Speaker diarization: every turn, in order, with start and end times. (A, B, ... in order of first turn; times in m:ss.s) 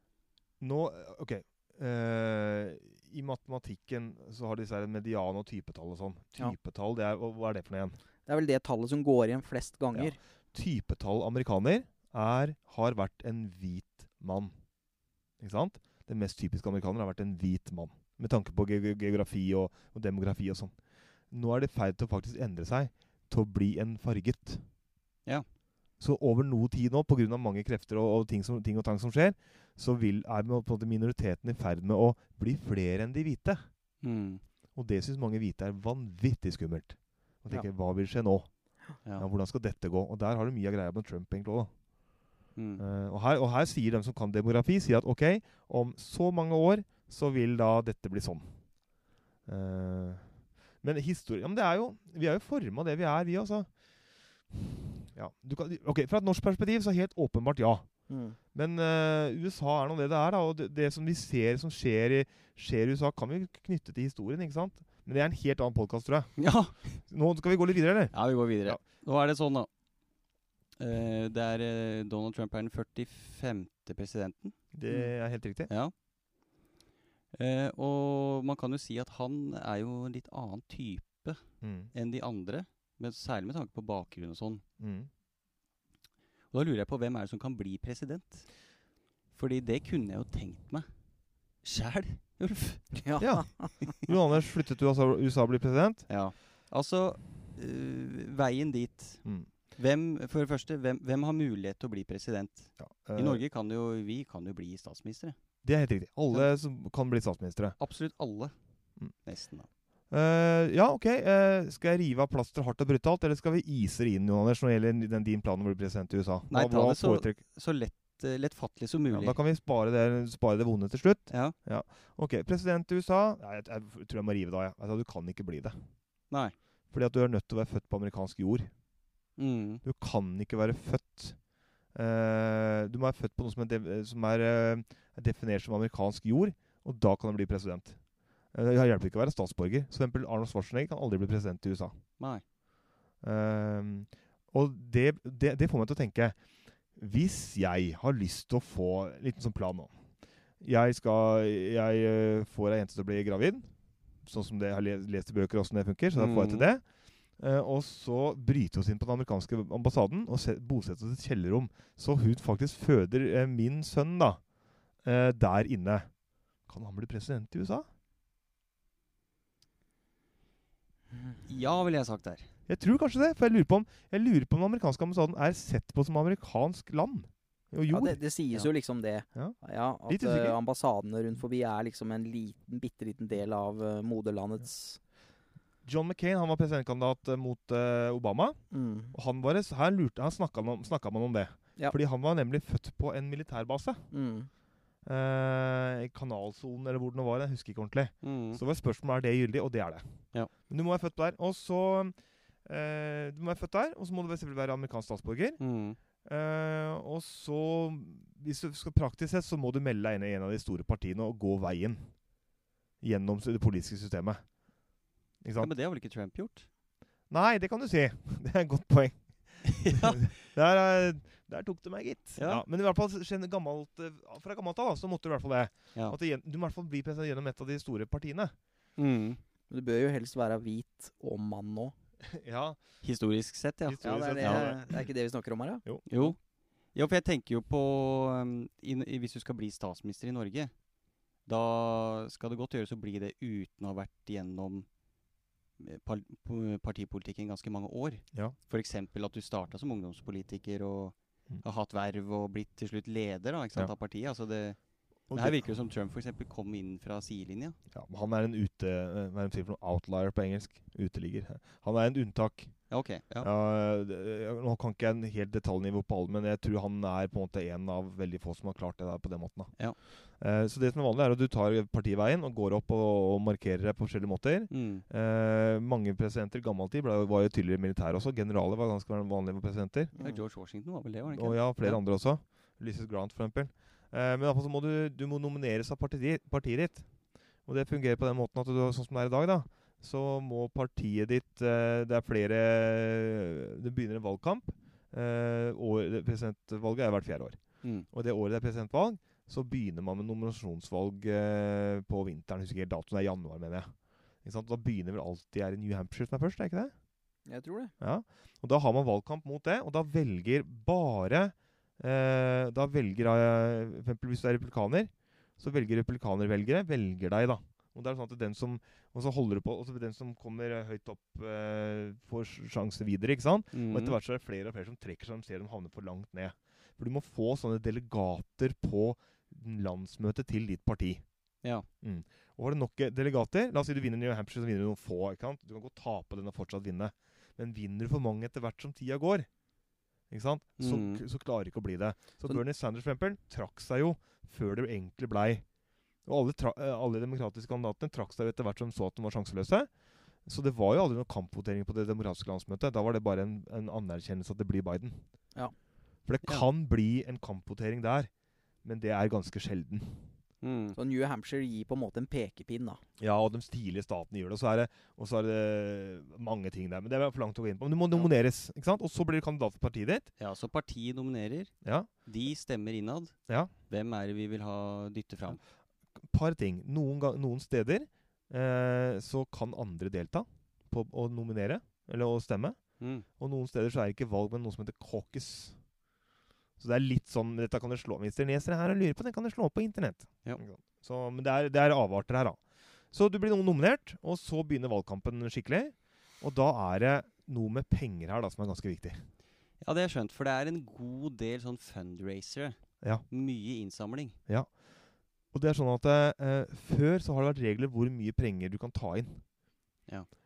0:00.6-0:08.0 A
0:08.2-0:10.2 B
0:09.9-0:14.5 A
0:15.4-0:24.6 A
0:26.0-0:33.7 A
0:34.0-0:34.4 C
0:34.7-0:41.7 A
0:42.6-0:42.8 C
0:42.8-0:48.8 A
0:49.4-1:08.8 A
0:58.1-0:58.4 B
1:06.4-1:07.0 C
1:08.1-1:09.7 C
1:10.8-1:14.6 C
1:14.7-1:15.7 A
1:15.7-1:15.9 C
1:17.3-1:24.6 C
1:21.6-1:21.9 A
1:24.8-1:25.1 A
1:26.5-1:28.6 C
1:29.3-1:30.9 C
1:31.6-1:33.5 C
1:33.0-1:33.9 B
1:33.2-1:36.1 A
1:36.1-1:45.4 C
1:39.2-1:39.5 A
1:42.8-1:43.4 A
1:45.6-1:47.8 A
1:47.8-1:49.7 C
1:50.1-1:57.4 A
1:56.5-1:59.4 C
1:59.1-2:05.8 A
2:01.3-2:01.5 C
2:06.3-2:06.6 C
2:06.9-2:08.7 A
2:09.4-2:09.8 C
2:09.8-2:22.0 A
2:22.2-2:22.4 C
2:23.2-2:30.0 A
2:30.6-2:44.4 A
2:36.2-2:36.6 C
2:45.0-2:46.1 A
2:46.6-2:47.9 A
2:51.5-2:52.5 C
2:52.7-2:58.2 A
2:57.9-3:05.0 B
2:59.3-3:00.6 A
3:05.8-3:14.1 A
3:08.7-3:09.1 B
3:14.1-3:14.5 B
3:15.0-3:25.6 A
3:18.2-3:18.6 C
3:25.6-3:26.0 C
3:26.2-3:32.2 A
3:33.0-3:34.5 A
3:35.4-3:35.7 A
3:35.6-3:36.7 C
3:37.3-3:48.5 A
3:39.7-3:40.2 C
3:42.4-3:42.6 C
3:49.0-3:49.4 C
3:49.7-3:51.9 B
3:52.3-3:52.9 A
3:53.0-3:54.7 C
3:53.8-3:55.1 A
3:54.0-3:56.3 B
3:56.1-4:00.8 C
4:01.4-4:04.9 C
4:05.8-4:17.8 C
4:15.3-4:15.6 A
4:17.9-4:40.1 A
4:22.9-4:23.5 C
4:34.7-4:35.0 C
4:40.1-4:40.4 B
4:40.2-4:42.0 C
4:41.3-5:06.9 A
4:57.8-4:58.1 C
5:07.4-5:07.9 B
5:08.0-5:31.2 A
5:23.7-5:24.2 C
5:31.6-5:31.9 C
5:32.0-5:39.5 A
5:40.3-5:45.6 A
5:40.8-5:41.2 C
5:46.2-5:55.2 A
5:56.2-5:58.3 A
5:58.8-6:00.3 A
6:00.6-6:01.0 C
6:01.0-6:03.0 B
6:03.2-6:10.3 A
6:10.4-6:11.7 C
6:11.8-6:12.1 A
6:12.2-6:15.6 C
6:16.2-6:25.8 A
6:23.0-6:23.2 C
6:26.8-6:39.2 A
6:39.8-6:44.4 C
6:44.5-6:44.8 A
6:45.5-6:49.4 A